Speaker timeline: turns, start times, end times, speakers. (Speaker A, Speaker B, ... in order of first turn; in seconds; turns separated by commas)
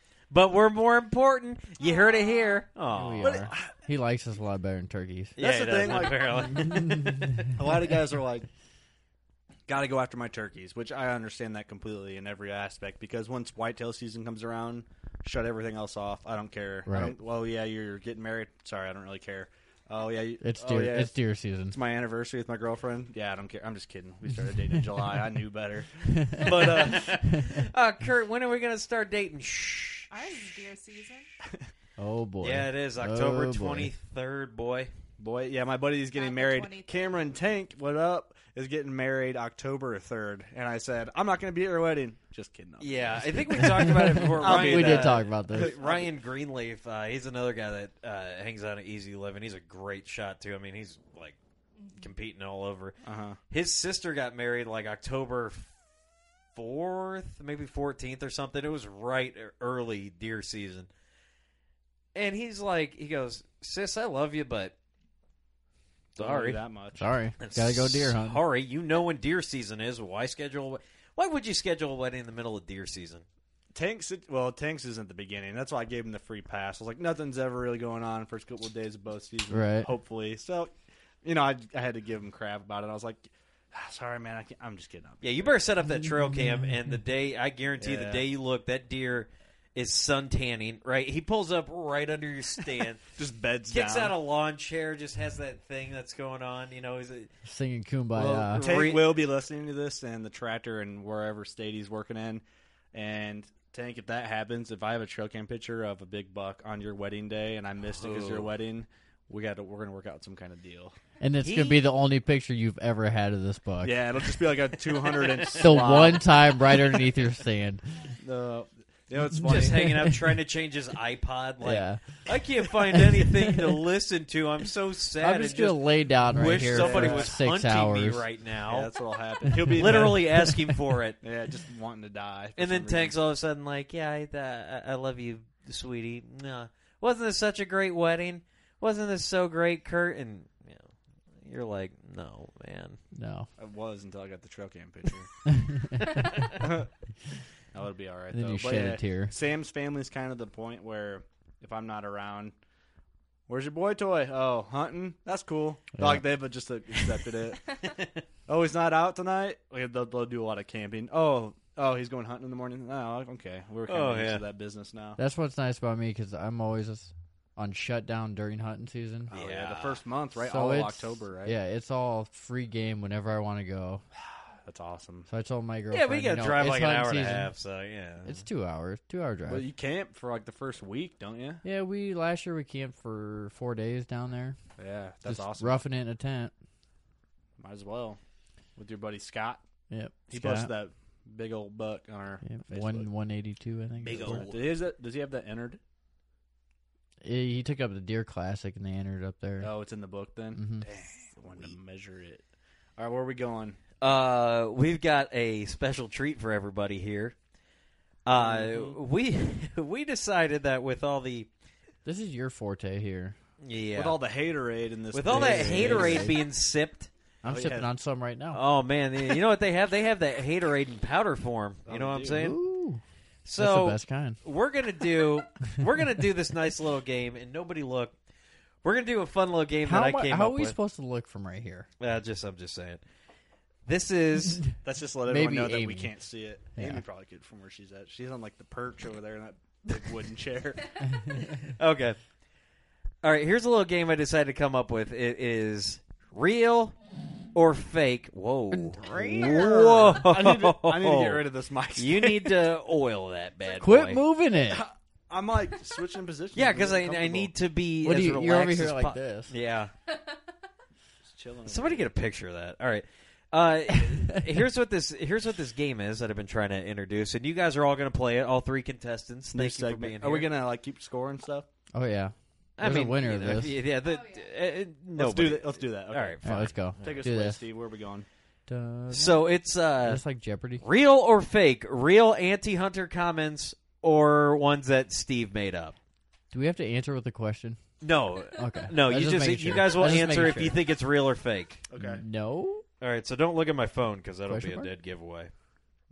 Speaker A: 0.3-3.5, Speaker B: 1.8-2.7, Speaker C: 2.9-7.3, Speaker D: 3.2-3.7, Speaker A: 5.4-7.7, Speaker D: 5.4-6.5, Speaker D: 7.5-8.5, Speaker D: 9.7-21.1, Speaker C: 16.9-17.1, Speaker C: 20.4-21.8, Speaker D: 21.7-27.2, Speaker C: 26.2-26.7, Speaker A: 26.4-30.1, Speaker B: 30.1-31.3, Speaker C: 32.0-33.9, Speaker A: 32.4-34.9, Speaker D: 35.2-46.1, Speaker B: 36.1-37.3, Speaker A: 42.8-51.4, Speaker C: 43.6-45.7, Speaker B: 51.8-52.1, Speaker A: 52.0-53.0, Speaker D: 53.0-53.4, Speaker A: 53.5-55.7, Speaker A: 56.5-60.9, Speaker A: 62.1-64.7, Speaker A: 66.2-66.6, Speaker D: 66.2-67.1, Speaker C: 67.0-68.4, Speaker A: 67.4-73.2, Speaker D: 73.8-80.7, Speaker C: 79.5-79.9, Speaker D: 81.2-85.5, Speaker A: 85.2-93.2, Speaker C: 86.0-86.7, Speaker D: 87.8-88.2, Speaker D: 93.2-94.1, Speaker A: 93.7-97.3, Speaker C: 97.5-98.7, Speaker A: 98.2-99.2, Speaker D: 98.4-111.0, Speaker A: 107.9-108.5, Speaker C: 111.2-114.1, Speaker A: 111.4-111.8, Speaker D: 113.8-116.5, Speaker A: 115.1-115.9, Speaker C: 115.5-117.9, Speaker D: 118.2-120.0, Speaker A: 119.4-128.9, Speaker C: 119.5-120.2, Speaker C: 121.6-122.2, Speaker C: 122.9-123.8, Speaker C: 125.2-128.3, Speaker D: 126.7-127.4, Speaker D: 128.7-130.3, Speaker C: 129.5-130.6, Speaker A: 129.7-131.2, Speaker D: 131.2-133.2, Speaker A: 132.6-143.0, Speaker C: 143.1-143.5, Speaker D: 143.6-145.3, Speaker C: 145.5-145.9, Speaker A: 146.0-146.6, Speaker D: 146.6-146.9, Speaker D: 147.7-152.6, Speaker C: 148.3-149.3, Speaker D: 153.5-157.6, Speaker C: 156.0-156.3, Speaker A: 157.9-158.2, Speaker D: 158.5-165.2, Speaker A: 163.9-164.4, Speaker C: 165.2-169.3, Speaker D: 169.3-171.6, Speaker A: 169.3-170.0, Speaker C: 170.4-174.0, Speaker D: 174.7-175.3, Speaker C: 175.3-177.5, Speaker A: 175.9-178.4, Speaker C: 178.2-179.7, Speaker D: 179.5-181.6, Speaker C: 181.6-184.6, Speaker D: 184.8-185.8, Speaker C: 185.2-186.5, Speaker D: 187.6-188.2, Speaker D: 188.8-189.6, Speaker C: 189.9-190.7, Speaker D: 190.3-193.1, Speaker C: 192.4-194.5, Speaker A: 194.0-194.6, Speaker D: 194.1-195.8, Speaker C: 197.2-199.7, Speaker D: 199.6-202.4, Speaker C: 200.6-200.8, Speaker D: 203.0-203.8, Speaker A: 204.0-207.3, Speaker A: 208.2-211.5, Speaker D: 208.3-209.0, Speaker C: 212.1-213.4, Speaker A: 213.6-214.2, Speaker D: 214.0-216.4, Speaker A: 215.1-217.1, Speaker C: 215.3-216.4, Speaker C: 217.4-218.6, Speaker D: 217.5-217.9, Speaker A: 218.5-222.6, Speaker D: 221.9-222.4, Speaker C: 222.3-223.0, Speaker A: 223.4-228.2, Speaker C: 223.6-224.4, Speaker A: 228.8-230.8, Speaker C: 229.8-231.9, Speaker A: 232.0-233.0, Speaker A: 233.9-234.7, Speaker D: 234.8-240.9, Speaker C: 235.3-236.1, Speaker C: 236.8-237.0, Speaker A: 241.6-242.2, Speaker A: 243.2-247.0, Speaker A: 247.5-251.4, Speaker C: 248.7-250.2, Speaker D: 249.1-252.7, Speaker A: 252.0-254.2, Speaker C: 253.8-254.9, Speaker D: 254.7-257.5, Speaker A: 256.5-259.9, Speaker C: 258.0-259.5, Speaker D: 261.3-262.1, Speaker A: 261.7-270.5, Speaker D: 269.5-271.7, Speaker C: 271.9-273.8, Speaker A: 272.8-277.2, Speaker B: 274.0-274.5, Speaker D: 275.2-276.4, Speaker C: 276.4-277.6, Speaker D: 277.0-278.3, Speaker C: 278.7-279.4, Speaker A: 279.1-280.2, Speaker C: 280.0-280.8, Speaker A: 280.8-285.9, Speaker C: 286.5-287.8, Speaker A: 288.0-291.8, Speaker C: 288.5-290.8, Speaker D: 291.9-292.2, Speaker C: 292.0-292.9, Speaker A: 293.0-295.5, Speaker C: 294.5-294.9